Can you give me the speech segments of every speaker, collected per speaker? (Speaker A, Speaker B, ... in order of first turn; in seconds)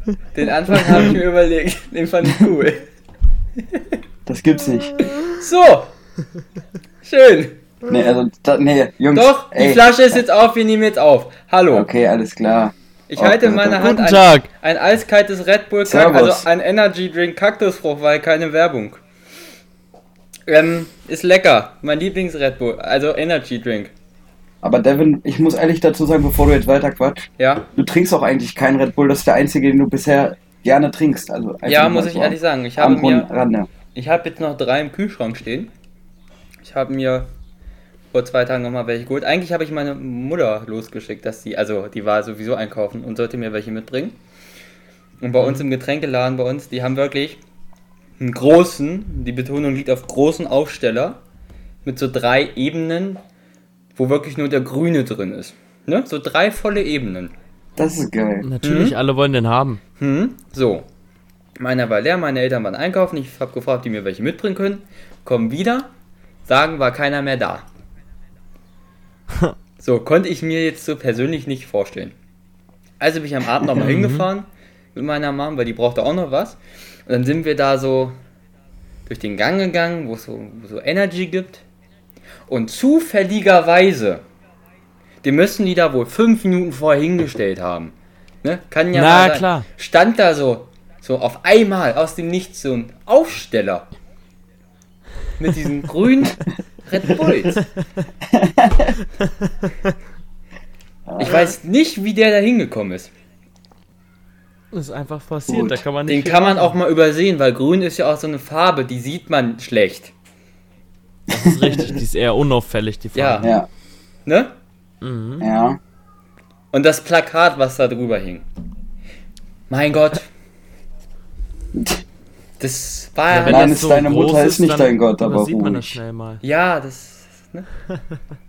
Speaker A: 0.3-2.9, 5.3-5.9, 7.0-7.6, 9.1-11.9, 13.1-19.0, 20.5-23.9, 27.4-27.7, 31.6-33.3, 34.0-35.7, 36.6-37.3, 38.1-44.2, 45.2-47.4, 48.2-51.2, 51.9-53.2, 54.0-57.3, 58.6-58.9, 60.0-60.9, 61.6-65.9, 66.5-67.7, 69.8-72.2, 73.0-78.2, 79.1-81.6, 82.5-84.2, 85.2-93.9, 95.4-97.6, 101.2-103.1, 106.1-110.1, 113.1-113.5, 114.2-114.6, 116.7-118.5, 119.7-120.3, 122.6-123.7, 126.4-127.7
Speaker B: 4.3-5.2, 7.9-9.8, 11.7-13.9, 15.9-16.4, 24.6-33.7, 57.8-58.5, 73.6-73.9, 98.3-98.9, 101.1-101.4, 105.5-105.8, 113.4-113.7, 115.4-115.8, 121.7-122.0, 123.4-126.0
Speaker C: 13.7-14.5, 45.4-45.6, 58.4-59.8, 69.3-69.6, 73.8-74.3, 88.9-89.7, 104.7-106.8, 111.3-113.5, 115.0-115.5, 123.3-126.4